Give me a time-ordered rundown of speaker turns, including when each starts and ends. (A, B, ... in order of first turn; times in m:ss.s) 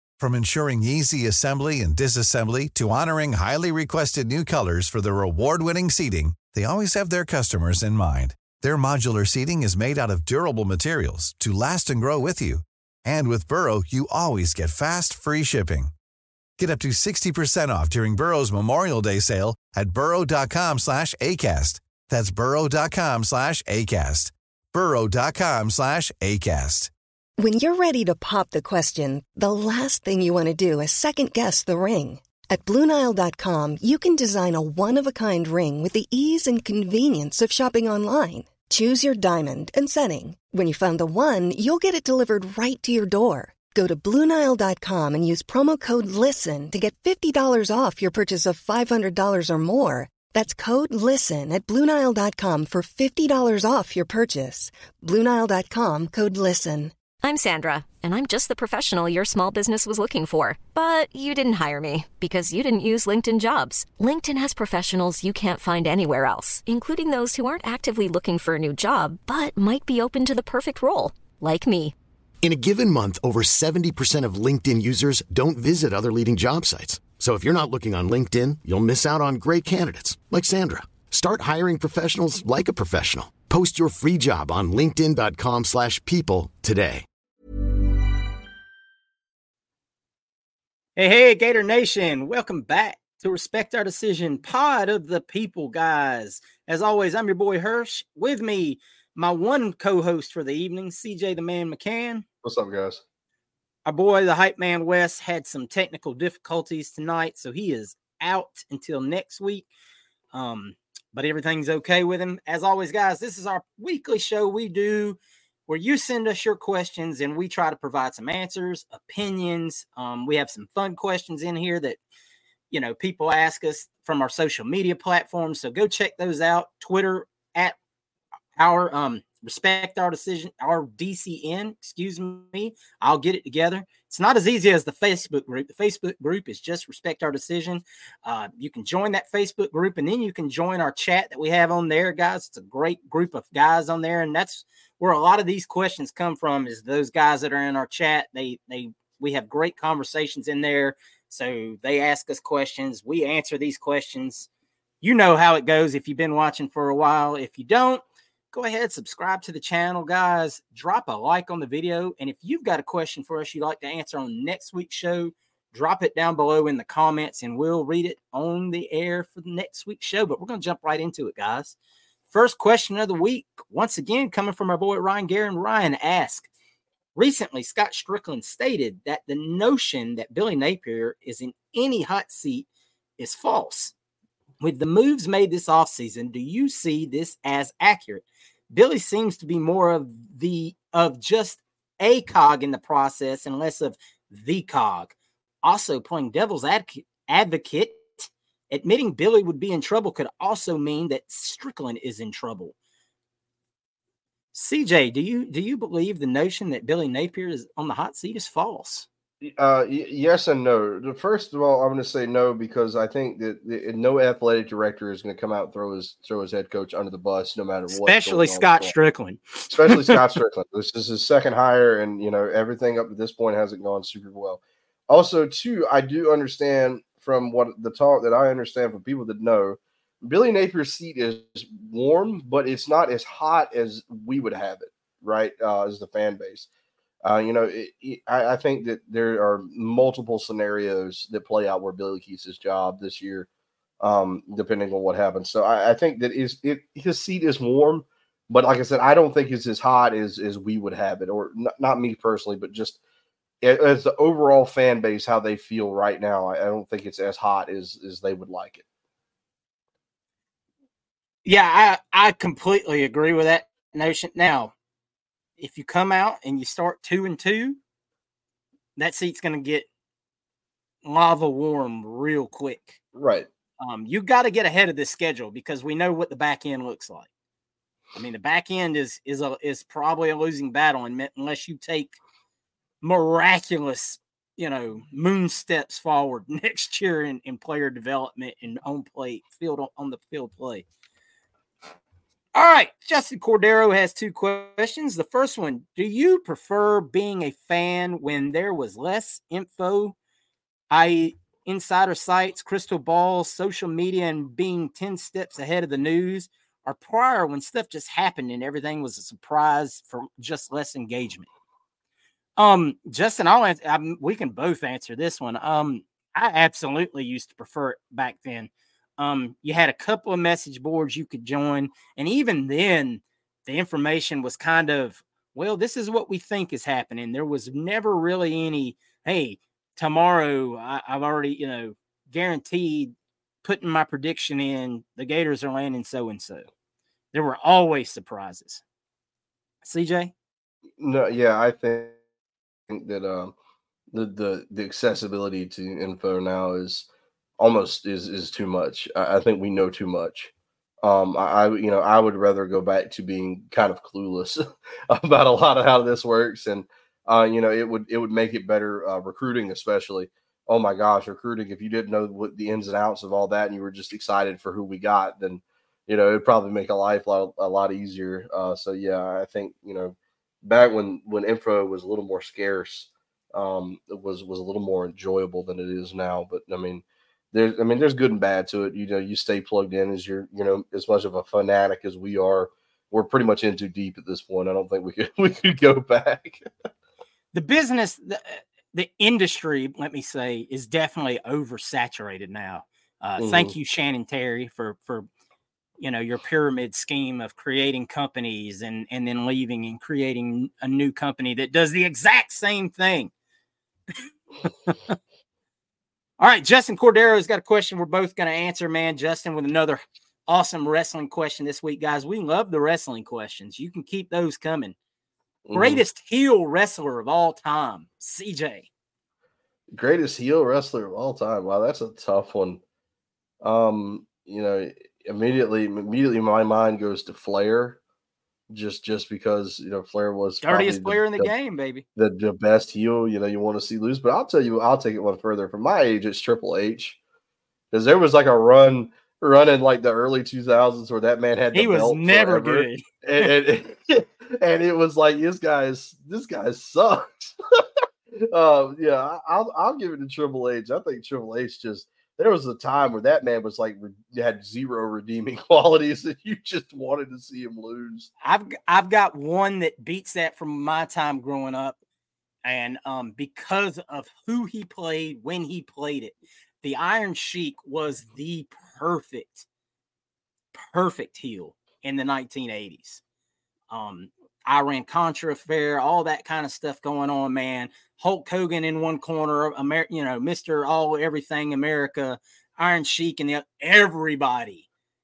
0:00.2-0:15.9 A
0:16.6-0:26.9 A
0:27.4-0:56.9 B
0:57.2-1:11.9 C
1:12.4-1:27.0 D
1:31.0-1:42.2 E
1:42.4-1:43.0 F
1:43.8-1:49.7 E
1:50.3-2:02.0 E
2:02.7-2:07.8 E
2:08.6-2:34.5 E
2:35.0-2:51.7 E
2:52.3-2:56.5 E
2:57.2-3:02.7 E
3:03.2-3:03.9 E
3:04.6-3:22.7 E
3:24.5-3:29.1 E
3:29.4-3:38.9 F
3:37.9-3:40.2 E
3:39.7-3:56.7 F
3:57.2-4:03.5 F
4:04.0-4:13.0 F
4:13.6-4:18.8 F
4:21.4-4:24.7 E
4:25.6-4:27.8 E
4:29.0-4:29.9 E
4:31.0-4:33.0 E
4:33.1-4:33.5 F
4:33.8-4:37.3 E
4:38.2-4:42.2 E
4:43.0-4:50.8 E
4:52.5-5:00.2 E
5:00.9-5:11.5 E
5:12.6-5:36.7 E
5:37.3-5:38.8 E
5:39.8-5:40.3 E
5:41.0-5:42.2 F
5:42.9-5:43.5 F
5:44.1-5:47.1 F
5:47.6-5:50.5 F
5:51.0-6:26.7 F
6:27.5-6:35.3 E
6:33.4-6:33.7 F
6:36.0-6:43.3 E
6:44.6-6:45.2 E
6:46.4-6:55.0 E
6:55.6-6:56.0 F
6:55.7-6:58.9 E
6:59.9-7:02.8 F
7:03.6-7:08.0 F
7:08.7-7:11.5 F
7:10.6-7:12.0 E
7:12.2-7:17.2 F
7:17.9-7:27.6 F
7:21.7-7:23.5 E
7:28.3-7:38.3 F
7:38.4-7:42.0 E
7:42.6-7:49.6 E
7:50.7-7:53.2 E
7:53.9-8:04.8 E